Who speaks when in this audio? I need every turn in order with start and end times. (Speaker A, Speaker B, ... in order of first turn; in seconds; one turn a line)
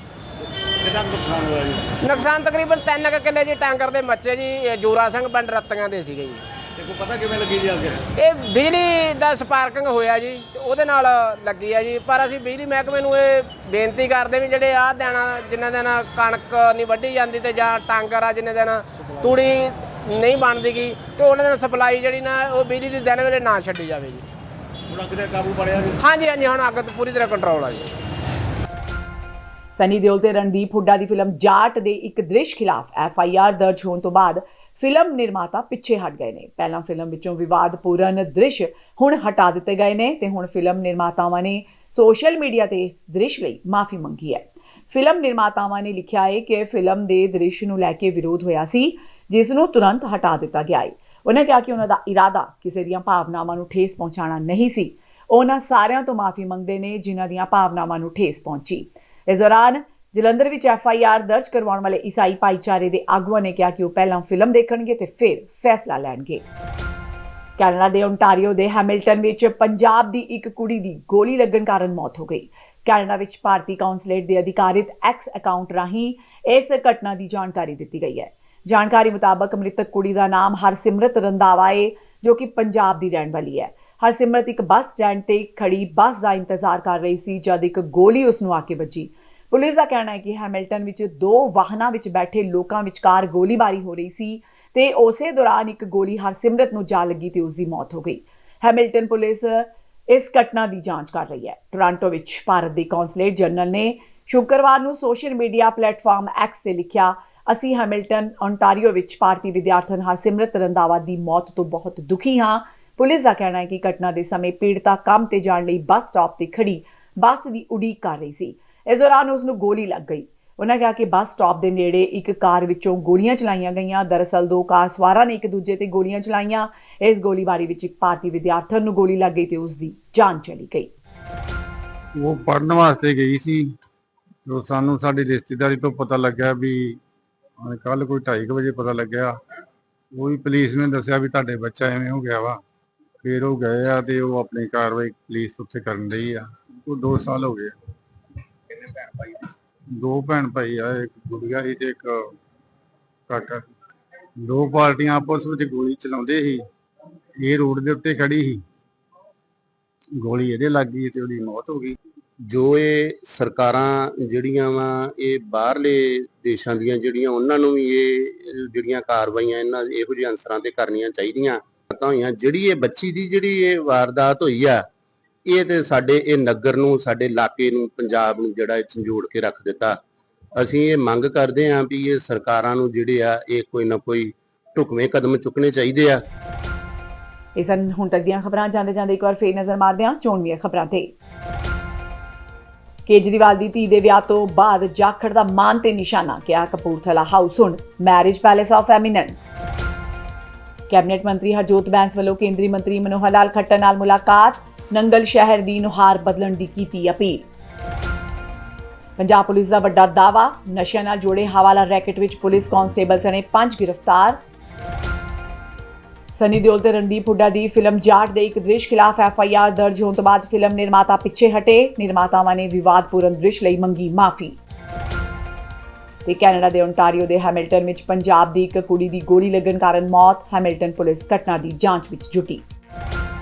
Speaker A: 0.8-1.9
Speaker B: 2.0-6.4
Speaker A: 6.8-8.0
Speaker B: 8.2-24.2
Speaker A: 24.9-25.9
Speaker B: 26.0-27.8
Speaker C: 29.7-66.4
Speaker C: 67.6-130.9
Speaker D: 132.2-133.6
Speaker D: 134.5-136.8
Speaker D: 137.7-139.3
Speaker D: 140.2-142.6
Speaker D: 143.2-147.7
Speaker D: 150.0-152.1
Speaker D: 154.5-156.6
Speaker D: 157.4-158.5
Speaker D: 160.2-161.9
Speaker E: 162.5-174.8
Speaker E: 175.4-180.0
Speaker E: 180.6-186.2
Speaker C: 187.6-191.1
Speaker C: 193.1-199.4
Speaker C: 200.9-207.4
Speaker C: 209.2-214.4
Speaker C: 216.3-224.6
Speaker C: 226.2-232.6